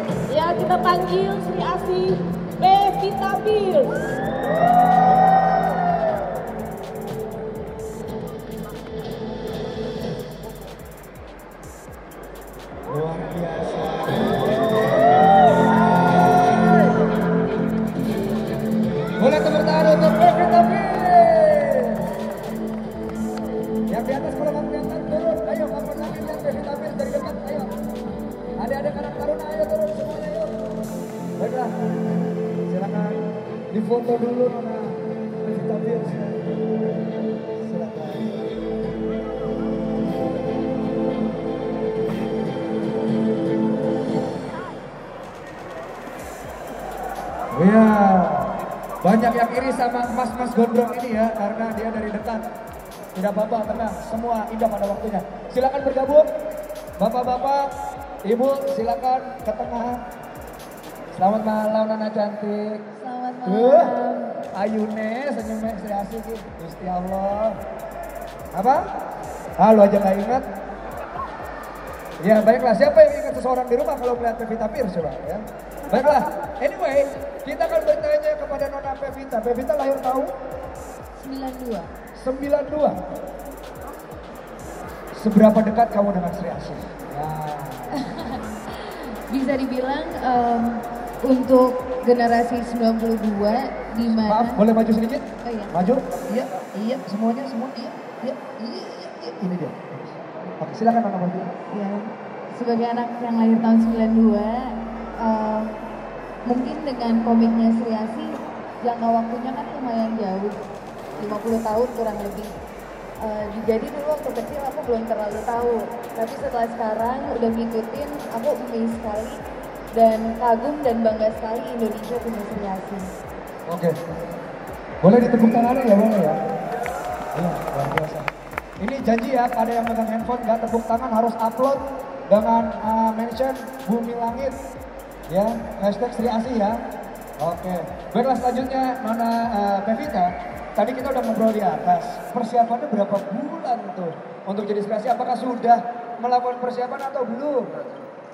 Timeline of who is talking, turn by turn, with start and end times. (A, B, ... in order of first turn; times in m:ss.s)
0:00.3-0:04.0 A
0:12.9-0:15.2 B
0:15.8-0:17.0 B
0:19.2-0:22.1 B
0:23.9-0:27.8 B
0:28.6-0:30.6 B
0:31.4-0:31.8 B
0:32.7-0:36.4 B
0:37.5-0:38.3 B
0:47.5-0:52.4 B
0:53.2-0:56.3 B
0:57.0-0:57.7 B
0:58.2-1:00.0 B
1:01.1-1:02.8 B
1:03.0-1:04.3 C
1:03.4-1:04.0 B
1:04.5-1:07.6 B
1:08.5-1:08.9 B
1:09.6-1:10.4 B
1:12.2-1:20.3 B
1:21.2-1:21.9 C
1:22.2-1:23.0 B
1:25.2-1:28.0 B
1:28.0-1:34.6 C
1:34.2-1:41.5 B
1:35.4-1:35.7 C
1:41.7-1:45.8 C
1:46.5-1:50.6 C
1:51.2-1:52.5 C
1:53.2-1:59.4 C
1:59.9-2:03.1 C
2:03.7-2:04.0 B
2:05.0-2:06.4 B
2:07.3-2:08.3 B
2:08.8-2:14.6 B
2:15.3-2:16.8 B
2:17.4-2:27.9 B